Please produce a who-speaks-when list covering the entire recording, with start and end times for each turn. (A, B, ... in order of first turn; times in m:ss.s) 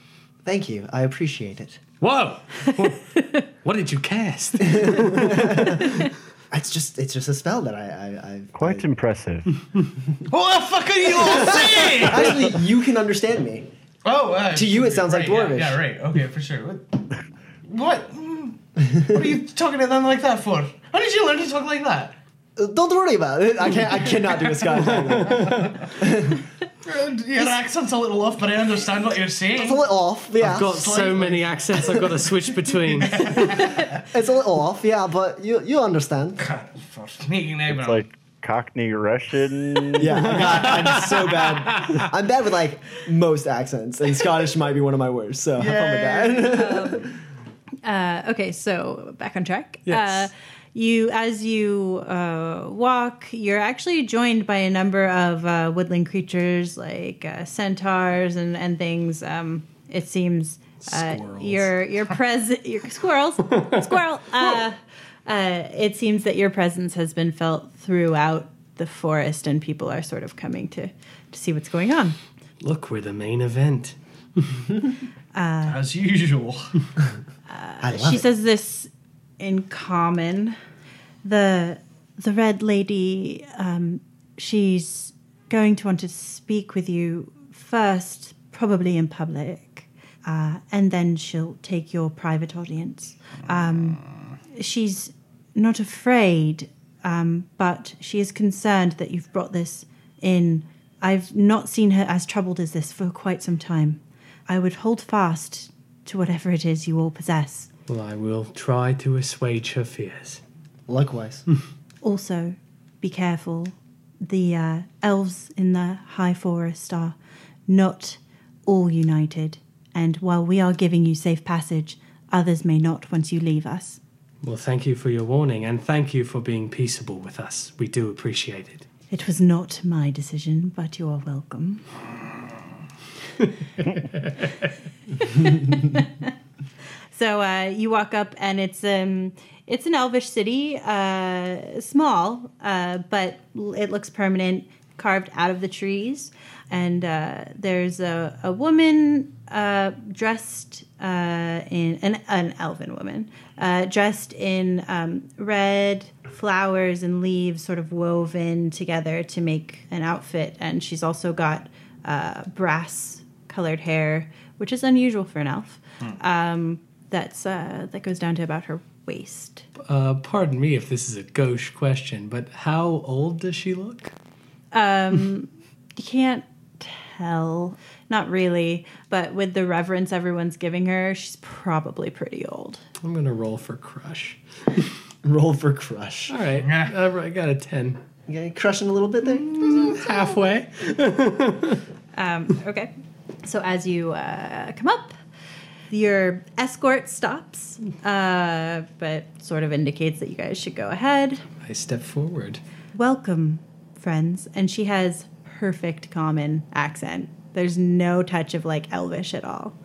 0:00.4-0:01.8 A
0:02.0-0:05.8 B
0:04.6-0:08.9 A
0:08.6-0:09.5 C
0:10.3-0:12.5 D
0:11.5-0:13.7 A
0:14.0-0:17.1 D
0:14.5-0:15.8 A
0:17.6-0:22.2 D
0:22.6-0:26.4 A
0:25.3-0:25.6 B
0:26.8-0:29.8 D
0:29.6-0:30.8 A
0:30.4-0:33.7 B
0:30.6-0:31.5 D
0:33.0-0:34.0 D
0:33.4-0:36.4 A
0:36.4-0:38.0 D
0:37.7-0:40.5 C
0:40.0-0:47.1 A
0:40.7-0:41.1 B
0:45.6-0:46.6 D
0:46.5-0:47.1 E
0:47.8-1:12.2 E
0:49.9-0:50.3 B
1:00.9-1:01.6 B
1:12.6-1:14.7 B
1:15.3-1:15.8 E
1:15.6-1:16.7 D
1:17.5-1:20.6 E
1:17.8-1:18.2 A
1:21.2-1:47.7 E
1:47.9-1:50.4 B
1:50.9-1:51.4 A
1:52.0-1:57.2 E
1:57.7-2:04.0 E
2:04.4-2:08.8 B
2:09.1-2:11.8 E
2:14.0-2:14.5 B
2:15.2-2:16.3 E
2:17.1-2:49.6 E
2:49.8-2:54.1 B
2:54.7-3:02.8 E
3:03.0-3:04.4 B
3:05.2-3:06.4 A
3:06.3-3:08.0 B
3:06.6-3:06.9 D
3:08.3-3:10.0 A
3:09.4-3:11.8 B
3:12.1-3:12.9 E
3:13.4-3:15.1 E
3:15.9-3:21.4 E
3:21.6-3:22.6 B
3:22.9-3:29.7 E